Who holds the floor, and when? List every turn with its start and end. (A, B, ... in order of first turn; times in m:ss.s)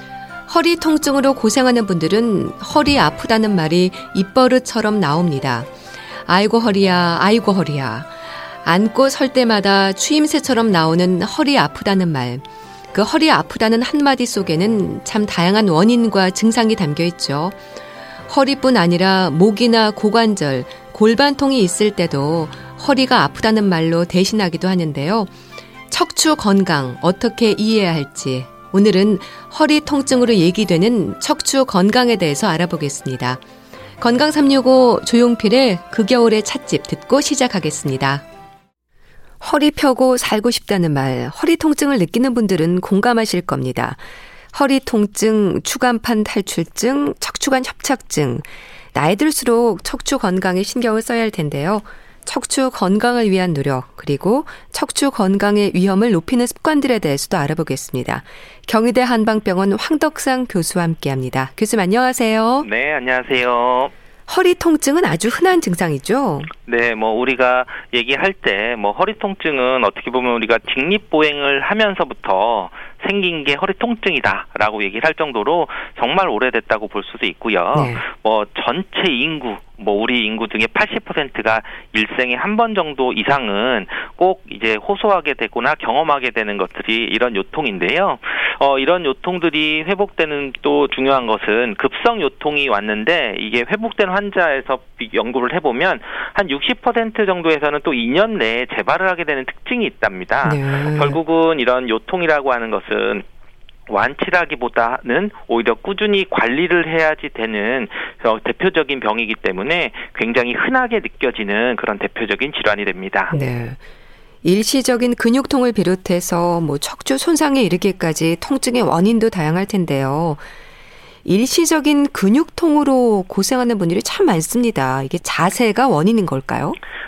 0:00.5-0:05.7 A
0:06.3-0:17.6 A
0:18.3-0:25.3 A
0:25.9-0:33.4 A
0:34.0-0:38.2 A
0:39.4-1:02.7 A
1:02.6-1:03.9 B
1:04.3-1:06.5 A
1:06.7-1:43.2 B
1:17.7-1:18.0 A
1:40.4-1:41.2 A
1:43.9-1:53.3 B
1:53.3-1:53.8 A
1:54.4-2:00.4 A
2:01.2-2:06.8 A